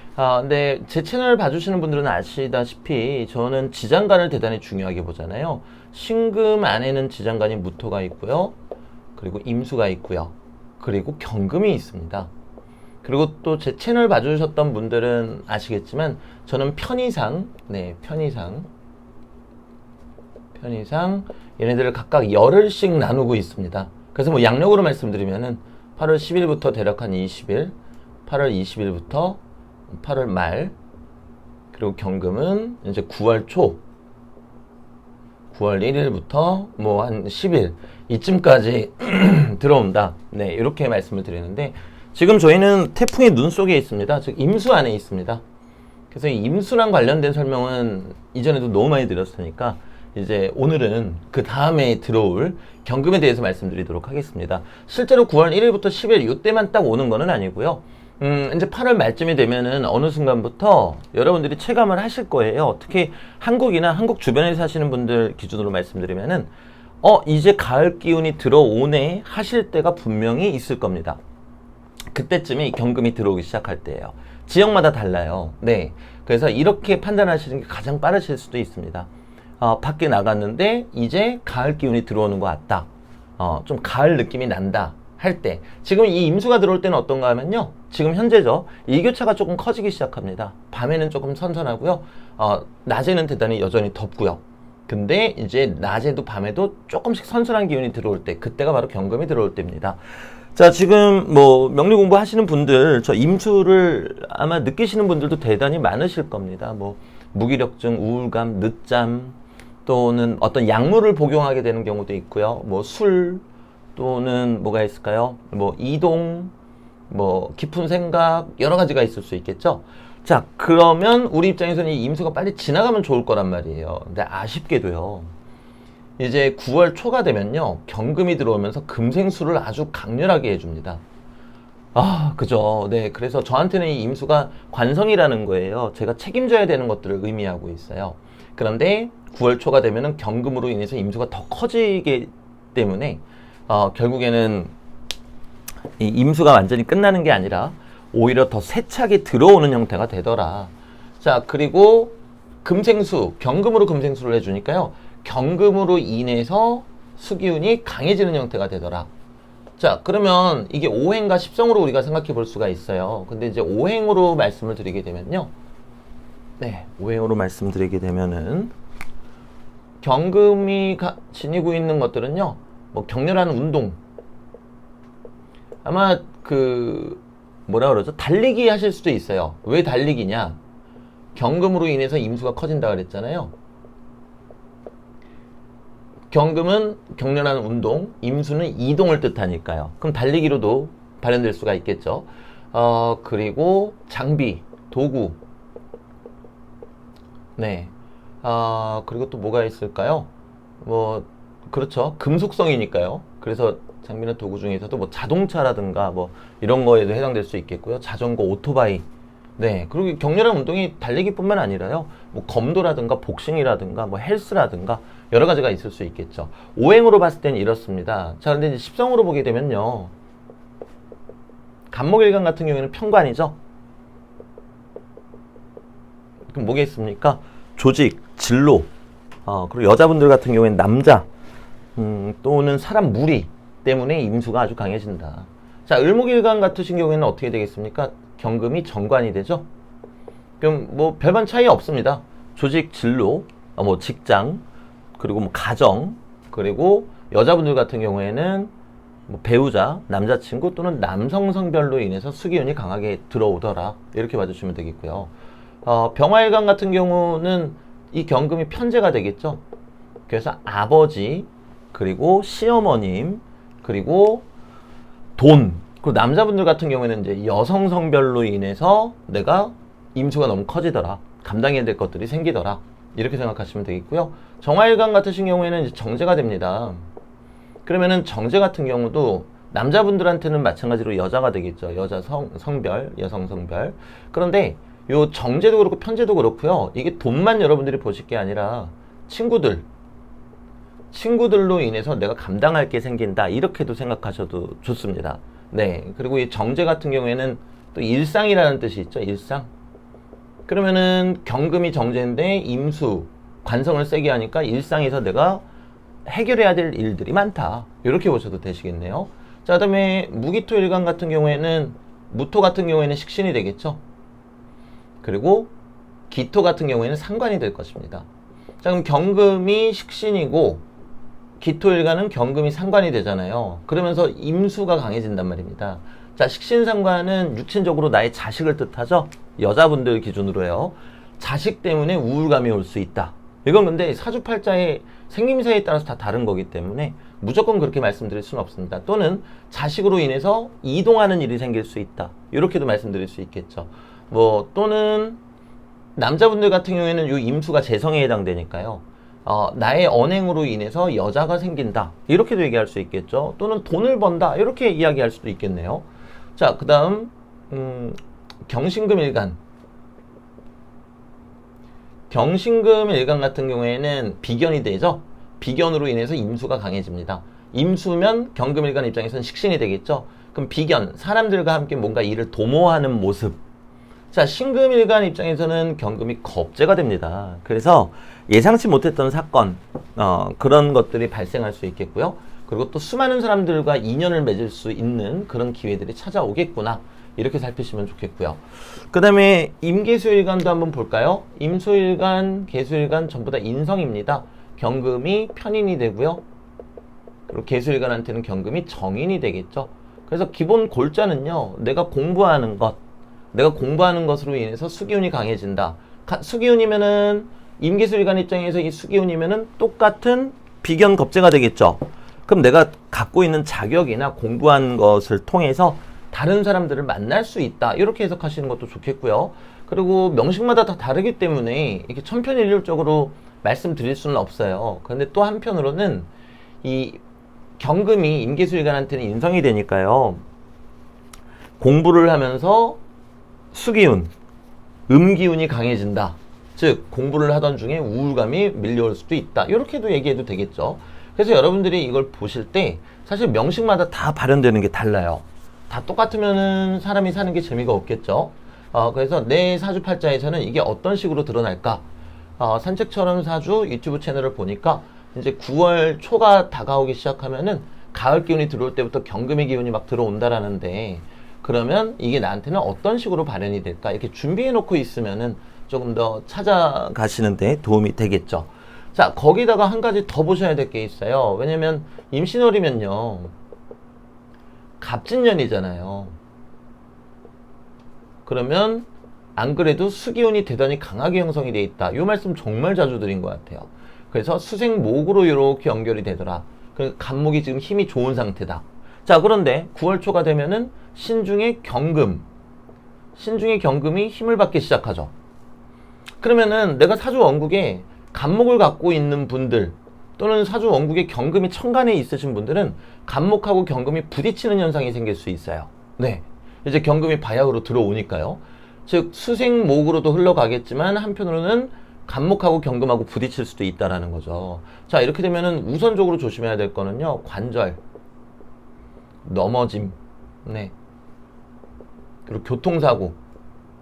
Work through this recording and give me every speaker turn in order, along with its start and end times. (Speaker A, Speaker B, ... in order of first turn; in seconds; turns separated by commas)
Speaker A: 0.1-8.5, Speaker A: 9.2-12.3, Speaker A: 13.0-18.7, Speaker A: 20.6-27.7, Speaker A: 28.2-30.7, Speaker A: 31.7-33.8, Speaker A: 35.5-45.4, Speaker A: 46.1-66.5, Speaker A: 67.0-71.2, Speaker A: 72.1-79.1, Speaker A: 79.6-100.0, Speaker A: 100.5-113.4, Speaker A: 114.0-116.5, Speaker A: 117.1-125.3, Speaker A: 126.2-131.0, Speaker A: 131.9-144.7, Speaker A: 146.0-159.1, Speaker A: 159.8-165.5, Speaker A: 166.6-168.7, Speaker A: 170.0-174.0, Speaker A: 175.8-180.6, Speaker A: 181.3-183.5, Speaker A: 186.3-195.4, Speaker A: 197.6-197.9, Speaker A: 198.4-200.3, Speaker A: 200.8-209.0, Speaker A: 209.6-220.1, Speaker A: 221.9-223.6, Speaker A: 226.5-228.9, Speaker A: 229.4-231.2, Speaker A: 231.9-239.7, Speaker A: 240.6-244.6, Speaker A: 245.2-248.7, Speaker A: 249.3-255.3, Speaker A: 255.8-259.6, Speaker A: 260.3-264.4, Speaker A: 265.4-277.0, Speaker A: 277.9-289.9, Speaker A: 291.1-299.7, Speaker A: 300.7-305.6, Speaker A: 306.2-314.0, Speaker A: 315.2-315.7, Speaker A: 316.3-318.3, Speaker A: 318.8-320.8, Speaker A: 321.6-345.4, Speaker A: 346.1-359.6, Speaker A: 362.3-373.6, Speaker A: 374.3-396.4, Speaker A: 397.5-403.0, Speaker A: 403.5-426.3, Speaker A: 426.8-427.2, Speaker A: 427.8-430.4, Speaker A: 431.8-433.0, Speaker A: 433.7-434.3, Speaker A: 435.1-452.0, Speaker A: 452.6-473.5, Speaker A: 475.0-476.4, Speaker A: 478.4-492.4, Speaker A: 493.4-495.3, Speaker A: 496.4-518.0, Speaker A: 519.4-520.9, Speaker A: 522.5-523.4